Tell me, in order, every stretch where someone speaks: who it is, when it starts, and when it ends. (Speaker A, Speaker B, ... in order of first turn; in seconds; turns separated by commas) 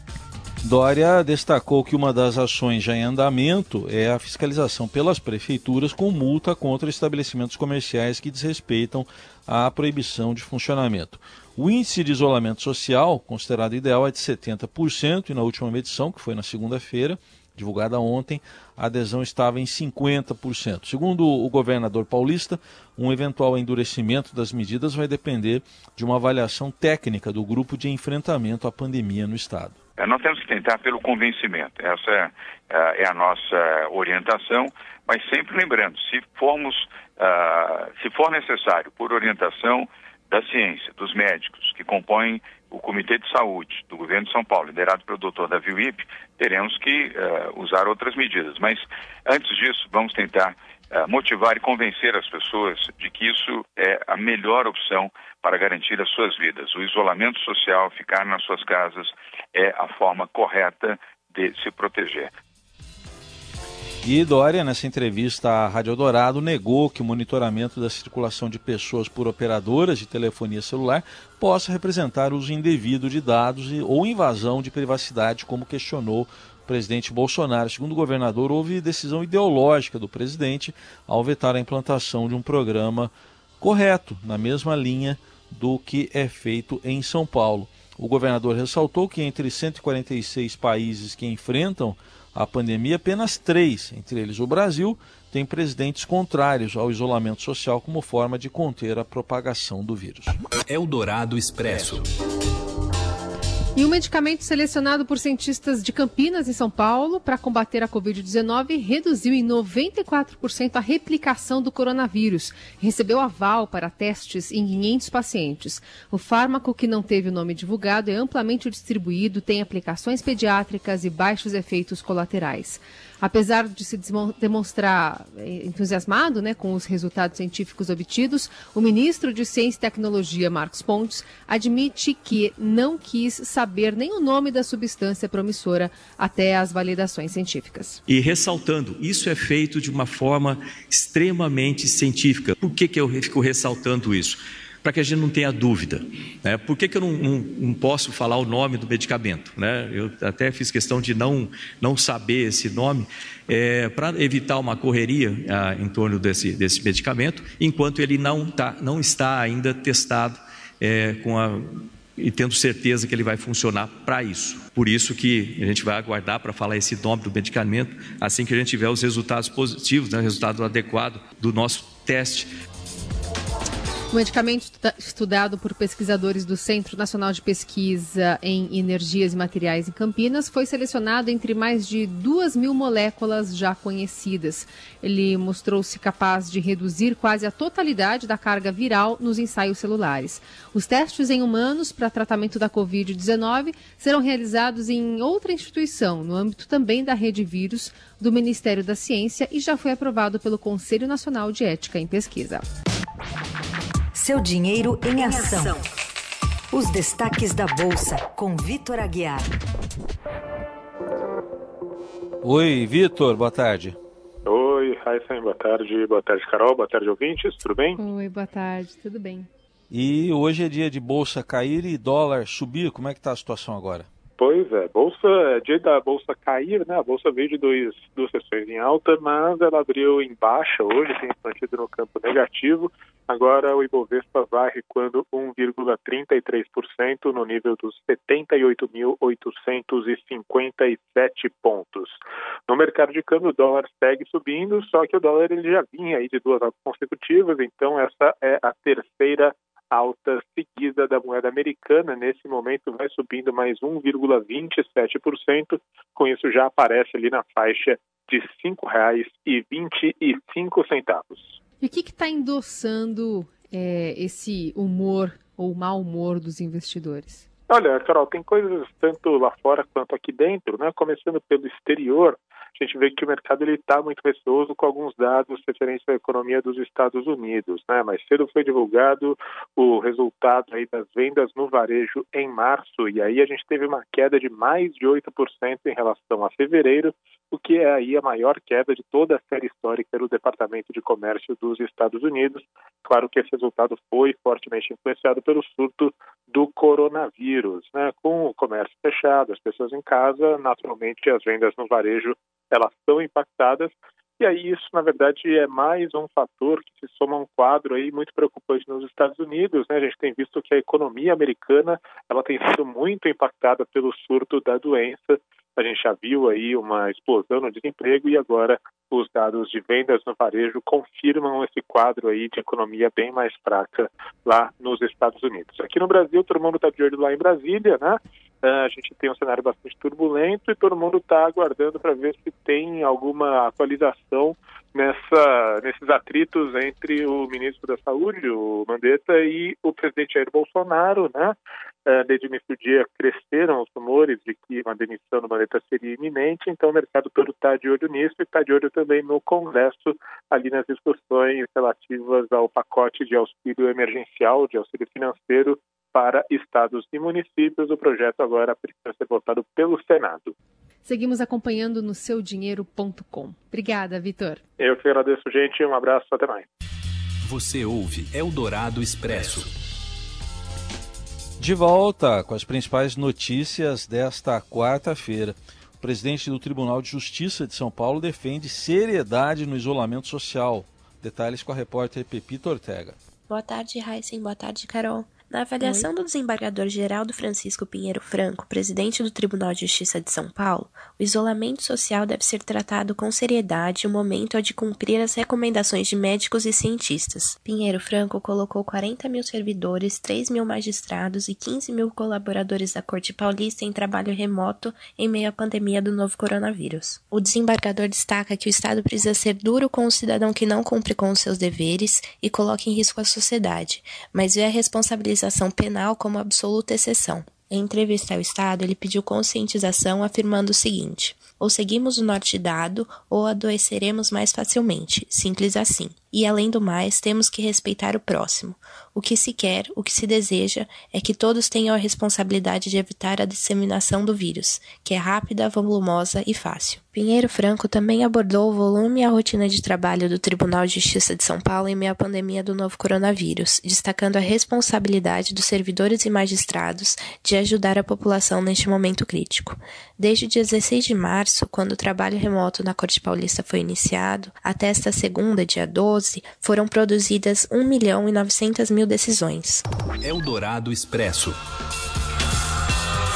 Speaker A: 0.6-29.8, Speaker B: 30.0-62.3, Speaker A: 64.0-100.4, Speaker C: 100.7-102.1, Speaker D: 103.7-138.0, Speaker E: 138.1-172.5, Speaker D: 174.1-202.6, Speaker F: 204.1-205.8, Speaker F: 206.7-209.5, Speaker A: 212.4-214.0, Speaker G: 214.4-218.0, Speaker D: 218.0-219.5, Speaker A: 219.9-224.1, Speaker G: 224.4-261.6, Speaker D: 261.8-267.4, Speaker G: 267.7-360.5, Speaker D: 361.0-364.6, Speaker G: 364.8-366.7, Speaker C: 367.4-369.7, Speaker A: 371.6-383.2, Speaker H: 383.5-459.8, Speaker C: 460.2-461.6